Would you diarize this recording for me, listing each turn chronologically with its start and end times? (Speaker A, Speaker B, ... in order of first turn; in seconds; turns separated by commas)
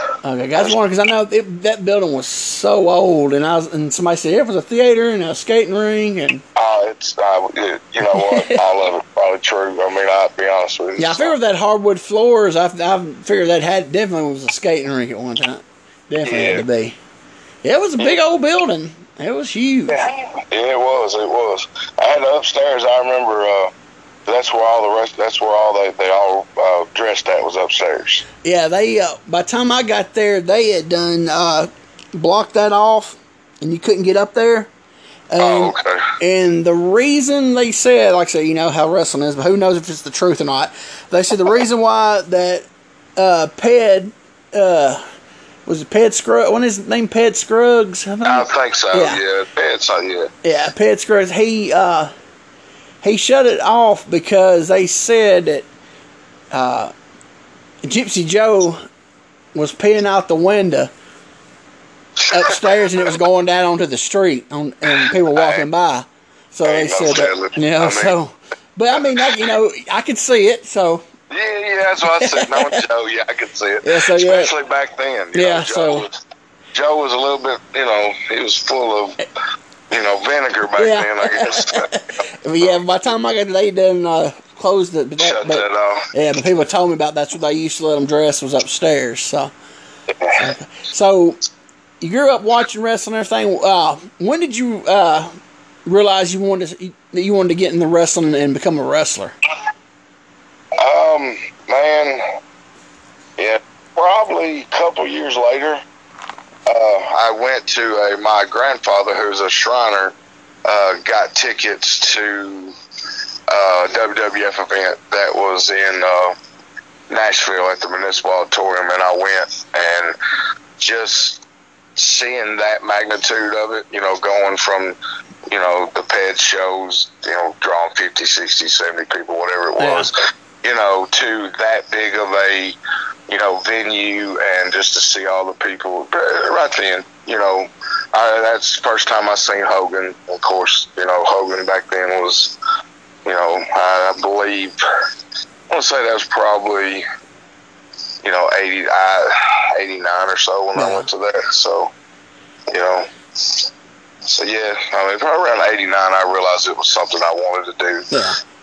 Speaker A: 0.2-6.4, Speaker B: 6.5-11.3, Speaker A: 8.1-8.6, Speaker A: 11.0-17.0, Speaker B: 16.2-16.6, Speaker A: 17.6-20.1, Speaker B: 19.9-23.7, Speaker B: 24.3-28.2, Speaker A: 28.4-34.7, Speaker A: 35.3-45.0, Speaker B: 35.4-36.1, Speaker A: 45.6-49.2, Speaker B: 48.2-50.3, Speaker A: 50.4-52.1, Speaker A: 53.0-55.7, Speaker A: 56.5-56.9, Speaker A: 57.8-58.9, Speaker A: 59.5-60.9, Speaker A: 62.3-71.0, Speaker B: 62.3-62.9, Speaker B: 64.9-65.7, Speaker B: 66.6-68.2, Speaker B: 71.3-76.2, Speaker A: 72.2-72.8, Speaker A: 73.8-74.5, Speaker A: 75.3-76.1, Speaker B: 76.7-79.2, Speaker B: 79.9-81.9, Speaker A: 80.8-89.5, Speaker B: 85.2-86.1, Speaker B: 90.1-90.5, Speaker A: 90.3-91.4, Speaker A: 92.0-95.3, Speaker A: 95.8-99.3, Speaker B: 100.8-102.2, Speaker B: 103.4-105.8, Speaker B: 106.7-110.1, Speaker B: 110.6-112.8, Speaker B: 113.5-116.3, Speaker B: 117.1-120.2, Speaker B: 120.8-121.4, Speaker B: 122.0-125.0, Speaker B: 125.5-132.8, Speaker A: 129.8-130.1, Speaker B: 133.3-142.6, Speaker B: 143.2-144.8, Speaker B: 145.7-147.0, Speaker B: 148.2-151.9, Speaker A: 150.8-151.1, Speaker B: 152.7-153.7, Speaker B: 154.2-158.1, Speaker A: 158.1-158.4